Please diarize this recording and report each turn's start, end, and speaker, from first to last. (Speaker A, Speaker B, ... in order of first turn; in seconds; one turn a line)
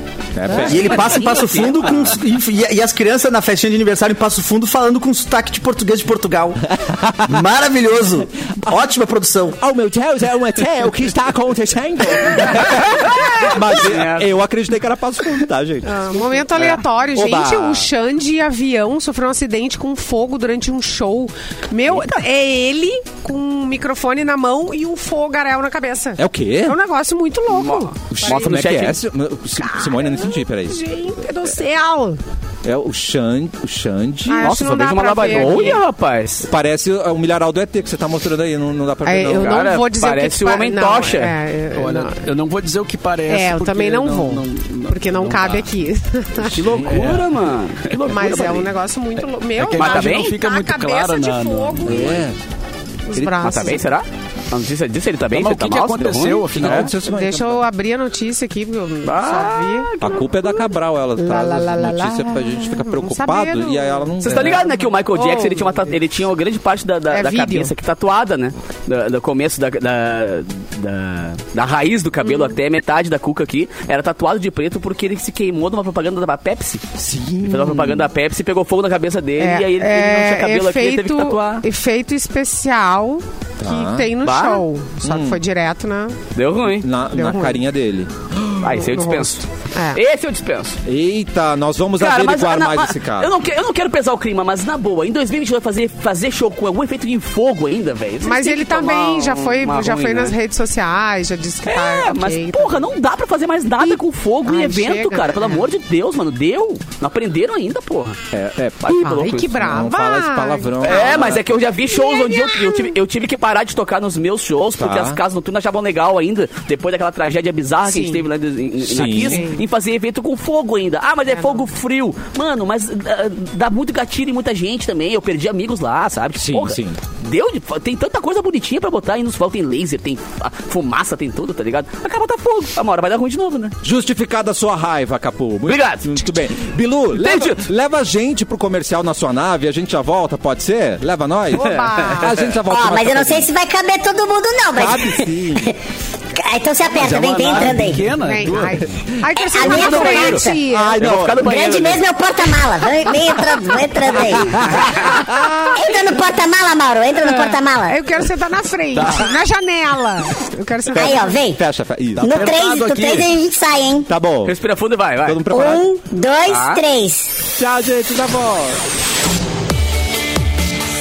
Speaker A: 0.3-1.2
Speaker B: 0.5-2.2
Speaker C: 0.5-6.6
Speaker A: 6.8-7.4
Speaker C: 7.2-9.6
Speaker A: 9.6-17.9
Speaker B: 13.0-14.3
Speaker D: 15.8-28.6
Speaker A: 26.2-26.8
Speaker B: 27.5-29.0
Speaker A: 28.1-30.8
Speaker D: 29.6-32.2
Speaker A: 32.6-34.6
Speaker D: 34.3-35.8
Speaker B: 34.4-36.5
Speaker A: 36.4-39.7
Speaker D: 39.0-42.2
Speaker B: 39.4-41.3
Speaker E: 41.7-45.7
Speaker D: 43.3-46.6
Speaker B: 46.5-48.7
Speaker A: 46.6-47.1
Speaker E: 46.8-47.4
Speaker D: 48.1-52.2
Speaker E: 49.5-52.2
Speaker B: 49.8-50.3
Speaker A: 51.8-52.4
Speaker D: 53.1-53.9
Speaker A: 53.1-53.6
Speaker B: 53.4-56.9
Speaker E: 55.3-56.9
Speaker A: 56.5-57.6
Speaker D: 57.0-59.9
Speaker B: 59.0-60.6
Speaker A: 60.0-64.6
Speaker D: 61.2-65.9
Speaker B: 64.2-76.8
Speaker D: 67.1-67.7
Speaker D: 72.2-72.5
Speaker A: 77.0-78.1
Speaker B: 77.5-81.6
Speaker D: 79.4-86.2
Speaker A: 83.6-84.1
Speaker B: 84.2-84.6
Speaker A: 85.0-85.4
Speaker B: 86.3-86.9
Speaker A: 86.7-88.7
Speaker D: 87.1-87.6
Speaker B: 88.6-90.8
Speaker D: 88.7-90.0
Speaker A: 90.8-93.3
Speaker B: 92.0-100.3
Speaker D: 98.2-102.9
Speaker B: 101.7-108.2
Speaker D: 103.8-105.7
Speaker A: 108.3-111.5
Speaker B: 108.8-109.6
Speaker D: 108.9-113.0
Speaker B: 110.8-133.8
Speaker A: 114.8-115.2
Speaker D: 117.8-118.2
Speaker A: 118.8-119.5
Speaker D: 119.2-119.6
Speaker D: 121.3-121.6
Speaker A: 126.3-127.0
Speaker A: 133.8-143.5
Speaker B: 135.7-136.2
Speaker B: 137.1-137.7
Speaker D: 141.5-142.3
Speaker F: 142.6-145.8
Speaker A: 144.8-145.7
Speaker F: 146.3-148.1
Speaker E: 146.9-148.8
Speaker D: 148.2-151.0
Speaker F: 149.4-150.6
Speaker B: 149.6-150.5
Speaker A: 150.7-151.4
Speaker B: 151.0-152.0
Speaker F: 151.4-155.0
Speaker B: 154.2-155.1
Speaker A: 154.6-155.7
Speaker F: 155.7-158.0
Speaker D: 157.2-161.4
Speaker E: 158.9-159.2
Speaker F: 160.9-161.6
Speaker A: 161.0-162.5
Speaker E: 162.2-163.3
Speaker F: 162.2-164.1
Speaker A: 164.1-164.6
Speaker B: 164.4-165.5
Speaker A: 165.2-165.9
Speaker F: 165.5-167.3
Speaker B: 166.4-166.8
Speaker A: 167.6-168.8